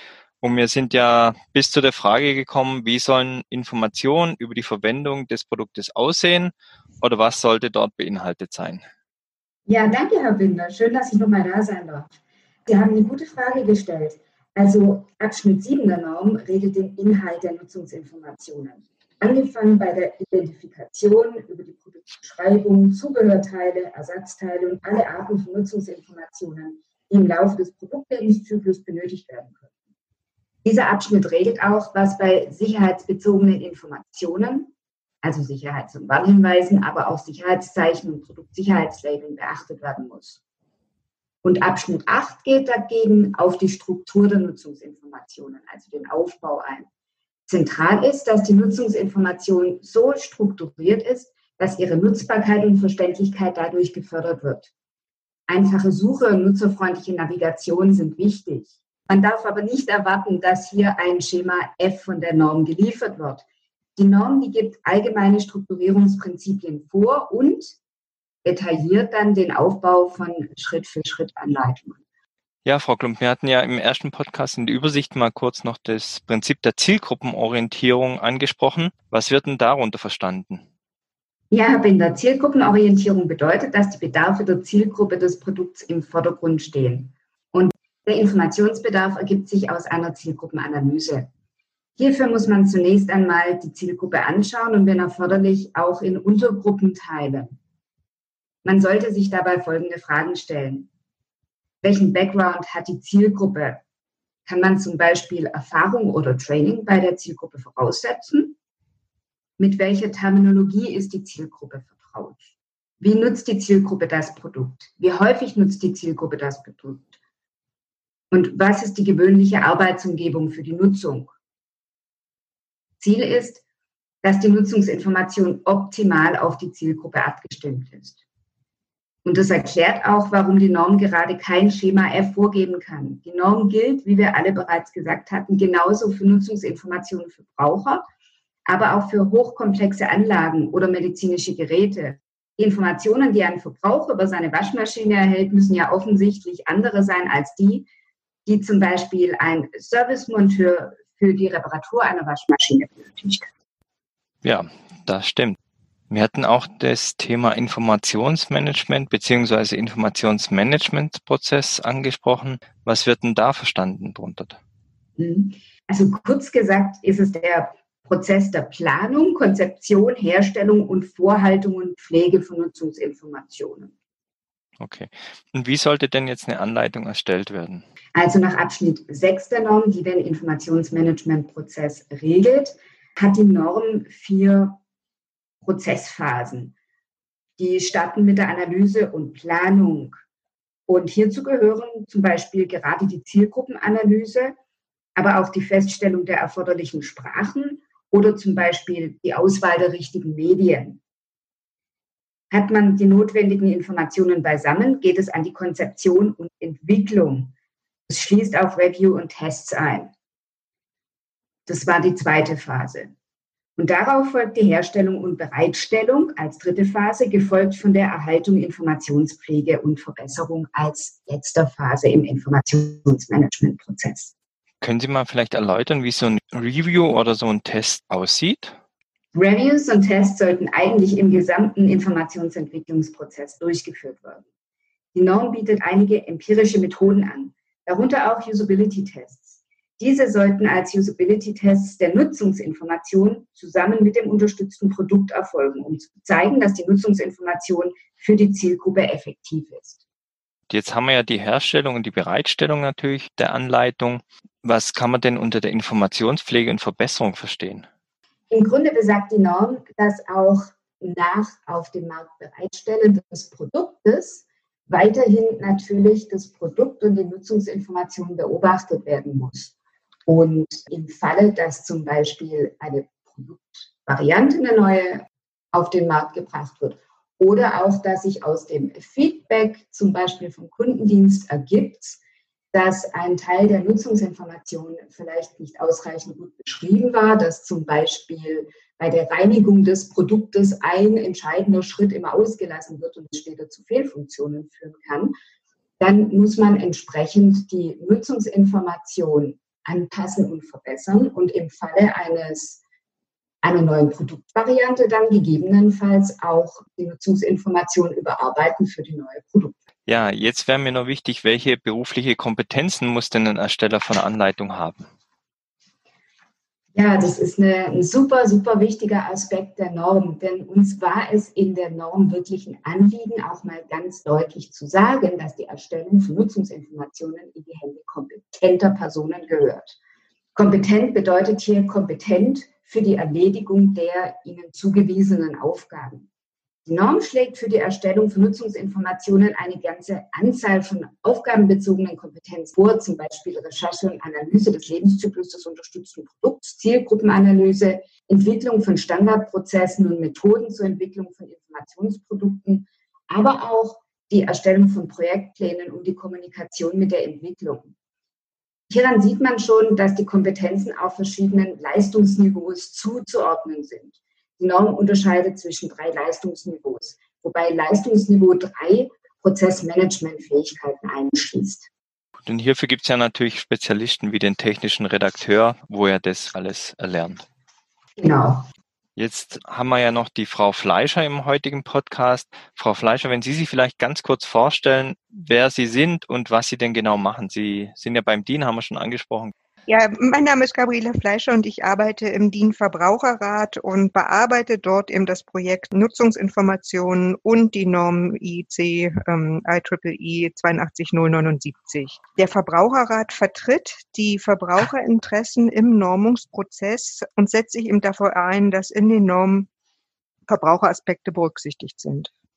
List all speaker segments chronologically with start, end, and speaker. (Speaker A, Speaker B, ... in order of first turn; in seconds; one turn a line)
Speaker A: 0.4-8.8
Speaker B: 9.7-12.2
Speaker B: 12.7-29.7
Speaker B: 30.6-40.4
Speaker B: 41.4-46.9
Speaker B: 47.5-54.7
Speaker B: 55.5-63.4
Speaker B: 64.0-67.8
Speaker B: 68.4-72.0
Speaker A: 72.6-80.6
Speaker B: 81.5-91.3
Speaker B: 92.0-97.6
Speaker B: 98.6-100.9
Speaker B: 101.8-103.8
Speaker B: 104.5-108.5
Speaker B: 109.6-112.5
Speaker B: 113.0-117.1
Speaker B: 118.3-121.3
Speaker B: 123.0-123.6
Speaker B: 124.2-128.2
Speaker B: 129.2-138.0
Speaker B: 138.7-147.9
Speaker B: 148.4-153.5
Speaker A: 154.4-155.6
Speaker A: 156.1-164.6
Speaker B: 165.2-173.9
Speaker A: 174.8-177.8
Speaker B: 178.1-184.8
Speaker B: 185.6-186.7
Speaker B: 187.6-190.2
Speaker B: 190.9-194.5
Speaker B: 195.2-201.0
Speaker B: 202.5-207.5
Speaker B: 208.1-210.1
Speaker B: 211.7-213.1
Speaker B: 213.8-224.3
Speaker A: 224.8-228.7
Speaker B: 229.3-234.4
Speaker B: 235.1-250.0
Speaker A: 250.7-257.9
Speaker B: 258.5-269.7
Speaker B: 270.2-282.2
Speaker B: 282.7-295.3
Speaker B: 296.0-302.8
Speaker B: 303.6-309.8
Speaker A: 310.1-315.0
Speaker B: 316.9-330.0
Speaker B: 330.6-336.3
Speaker B: 336.8-357.9
Speaker B: 358.9-371.9
Speaker A: 372.4-377.4
Speaker B: 378.2-378.6
Speaker A: 379.1-389.5
Speaker C: 389.9-409.7
Speaker C: 410.5-412.3